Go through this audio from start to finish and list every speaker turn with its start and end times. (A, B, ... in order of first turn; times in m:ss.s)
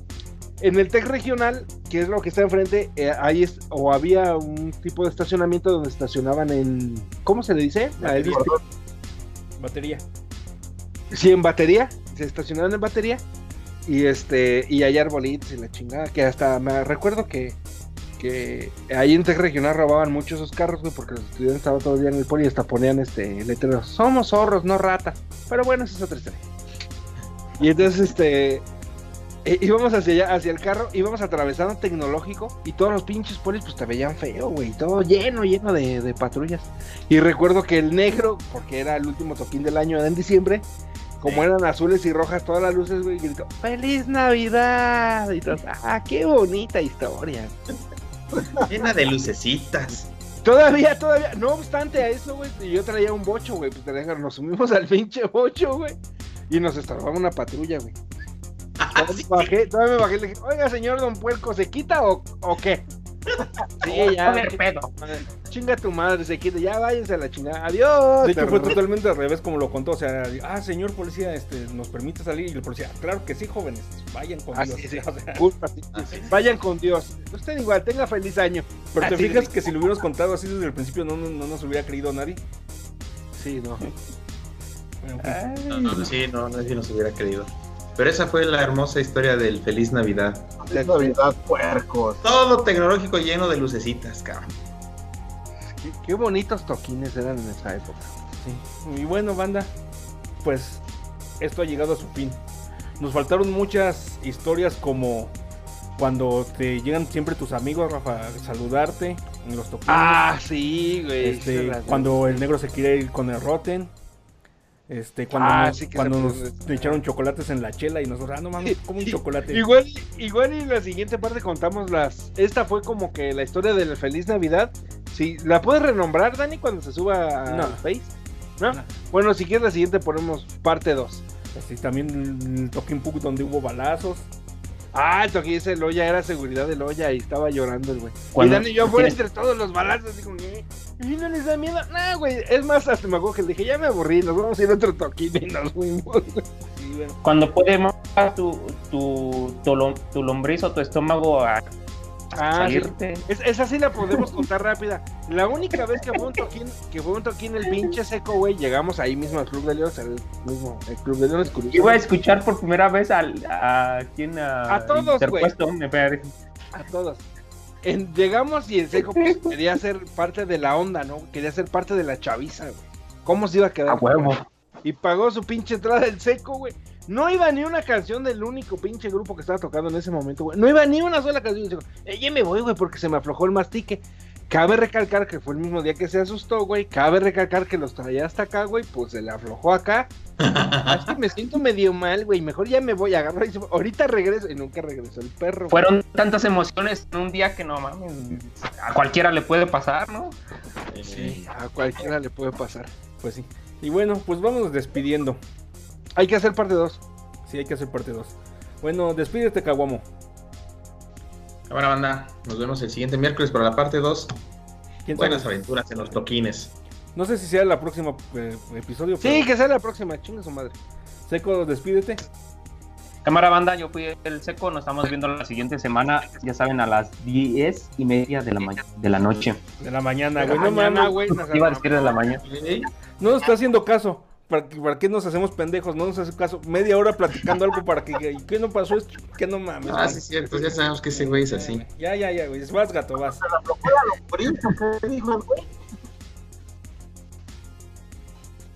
0:00.6-0:08.6 A
0:08.0-0:08.5 B
0:08.2-0:08.6 C
0:09.6-0:10.0 B
0:11.1-0:13.2 A
0:13.9-0:17.6 A
0:18.2-0:26.4 A
0:27.6-0:28.6 A
0:29.4-0:40.6 A
0:41.2-0:41.5 D
0:41.2-0:47.5 A
0:48.6-0:50.1 D
0:50.4-0:56.0 A
0:56.5-0:57.9 A
0:58.8-0:59.5 D
0:58.9-1:02.8 A
1:03.8-1:08.8 A
1:03.8-1:04.9 E
1:08.2-1:15.4 B
1:14.5-1:19.5 A
1:15.9-1:16.4 D
1:18.9-1:22.4 B
1:23.4-1:23.8 A
1:25.0-1:26.0 B
1:25.2-1:26.1 E
1:25.7-1:30.6 D
1:30.6-1:32.2 C
1:30.7-1:31.2 A
1:32.2-1:34.6 D
1:35.7-1:38.1 A
1:38.4-1:39.7 B
1:40.4-1:40.8 B
1:41.4-1:42.4 B
1:43.0-1:45.3 B
1:46.0-1:50.2 B
1:49.9-1:52.4 A
1:51.2-1:53.9 B
1:54.9-1:59.6 B
1:55.3-1:57.0 A
1:58.6-2:11.2 A
2:07.5-2:07.8 B
2:11.5-2:14.3 B
2:14.9-2:26.4 A
2:18.3-2:19.2 E
2:26.8-2:27.2 B
2:27.2-2:31.7 E
2:32.3-2:42.0 A
2:32.3-2:33.2 E
2:41.7-2:46.3 E
2:44.7-2:45.5 A
2:46.7-2:47.2 A
2:47.8-3:10.1 A
2:49.0-2:49.3 E
2:53.9-2:54.4 E
3:10.4-3:11.1 D
3:10.9-3:15.8 A
3:15.7-3:20.4 E
3:20.9-3:21.5 D
3:21.0-3:22.9 A
3:23.2-3:25.4 B
3:26.2-3:27.0 A
3:27.5-3:30.0 B
3:31.7-3:34.3 D
3:35.0-3:36.2 B
3:35.1-3:36.7 D
3:37.1-3:39.5 B
3:39.2-3:40.7 A
3:41.3-3:42.2 B
3:43.2-3:49.6 E
3:49.8-3:51.2 B
3:50.4-3:52.1 A
3:51.3-3:52.4 E
3:52.4-3:52.9 D
3:53.2-4:03.4 B
3:59.8-4:01.8 D
4:03.2-4:05.7 C